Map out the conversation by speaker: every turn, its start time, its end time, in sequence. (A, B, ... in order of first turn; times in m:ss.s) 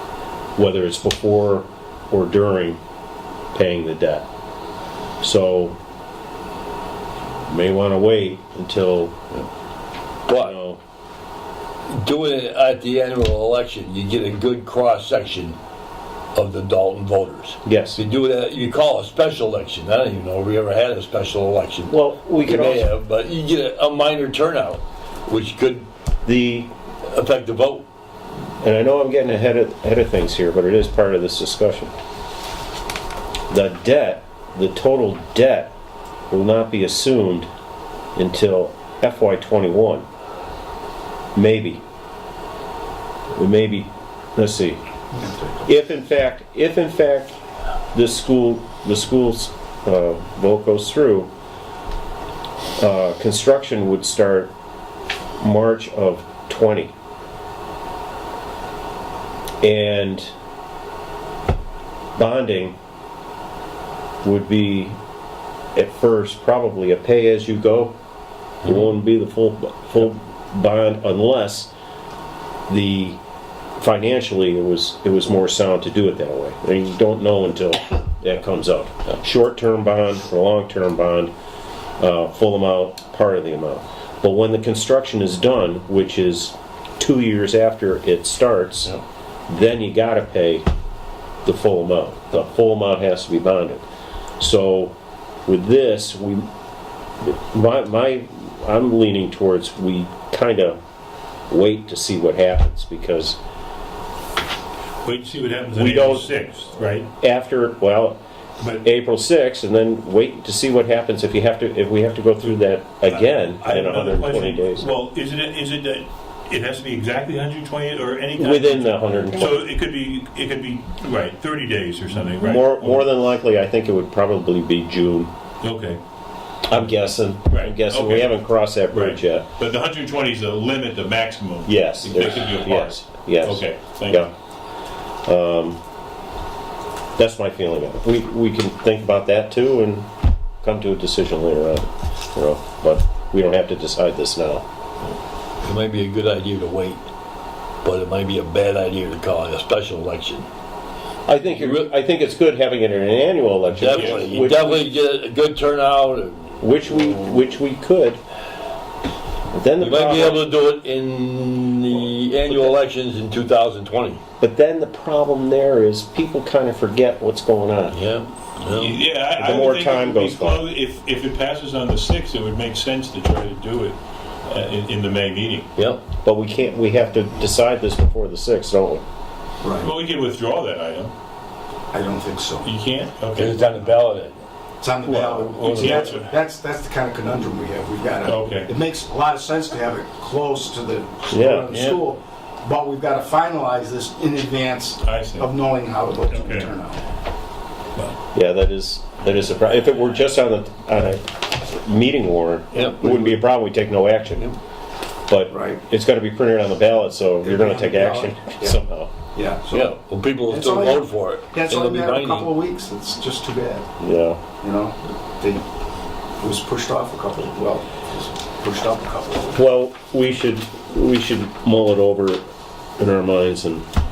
0:00.6-0:02.8 A
0:03.5-0:04.3 A
0:05.2-0:05.8 A
0:07.5-0:09.2 A
0:10.3-0:10.5 B
0:10.3-0:10.8 A
0:11.9-0:15.6 B
0:16.4-0:25.9 B
0:17.6-0:18.0 A
0:21.9-0:22.9 A
0:26.2-0:26.7 A
0:27.0-0:27.8 B
0:28.6-0:31.9 A
0:33.5-0:35.7 A
0:36.3-0:37.5 A
0:38.2-0:40.0 A
0:41.4-0:41.8 A
0:43.3-0:44.8 A
0:45.1-0:45.6 C
0:45.6-0:47.4 A
0:47.9-0:51.3 A
0:52.8-0:54.5 A
0:55.4-0:56.9 A
0:59.6-1:00.3 A
1:02.2-1:02.8 A
1:04.2-1:05.0 A
1:05.8-1:08.0 A
1:08.6-1:11.7 A
1:12.7-1:13.2 A
1:13.8-1:21.3 A
1:22.0-1:29.0 A
1:29.5-1:30.7 A
1:31.4-1:33.8 A
1:34.4-1:35.0 A
1:35.5-1:36.5 A
1:37.2-1:40.8 A
1:41.5-1:43.4 A
1:45.0-1:47.1 D
1:45.7-1:46.3 A
1:47.2-1:48.2 A
1:48.8-1:54.9 A
1:53.0-2:03.0 D
1:58.4-1:59.7 A
2:02.4-2:05.3 A
2:05.6-2:06.0 D
2:06.7-2:09.5 A
2:07.5-2:08.4 D
2:08.9-2:14.3 D
2:11.7-2:14.3 A
2:15.2-2:15.8 A
2:17.2-2:20.1 A
2:20.6-2:24.6 A
2:25.6-2:27.0 B
2:27.8-2:30.5 B
2:31.3-2:34.9 A
2:31.5-2:31.9 B
2:33.7-2:36.5 B
2:33.9-2:34.3 D
2:36.6-2:38.2 A
2:39.5-2:40.4 A
2:39.8-2:44.2 B
2:42.5-2:42.8 A
2:44.4-2:48.0 A
2:47.9-2:49.0 B
2:48.7-2:55.7 D
2:49.4-2:50.6 A
2:55.8-2:56.0 B
2:56.2-2:59.0 A
2:59.6-2:59.9 C
2:59.8-3:01.1 D
3:01.9-3:02.7 C
3:02.6-3:03.6 D
3:03.4-3:04.4 B
3:04.8-3:17.0 C
3:05.1-3:05.4 A
3:05.1-3:05.9 B
3:05.6-3:06.4 D
3:08.2-3:08.7 D
3:11.3-3:11.7 A
3:11.7-3:12.0 B
3:15.0-3:15.5 D
3:16.3-3:16.7 D
3:18.3-3:24.5 A
3:22.7-3:23.4 B
3:25.3-3:29.1 A
3:25.5-3:25.8 C
3:27.4-3:28.8 C
3:29.3-3:30.0 C
3:29.7-3:32.5 B
3:30.5-3:33.9 C
3:34.0-3:34.4 A
3:34.6-3:35.6 C
3:36.4-3:39.6 C
3:39.5-3:42.4 A
3:43.0-3:43.8 A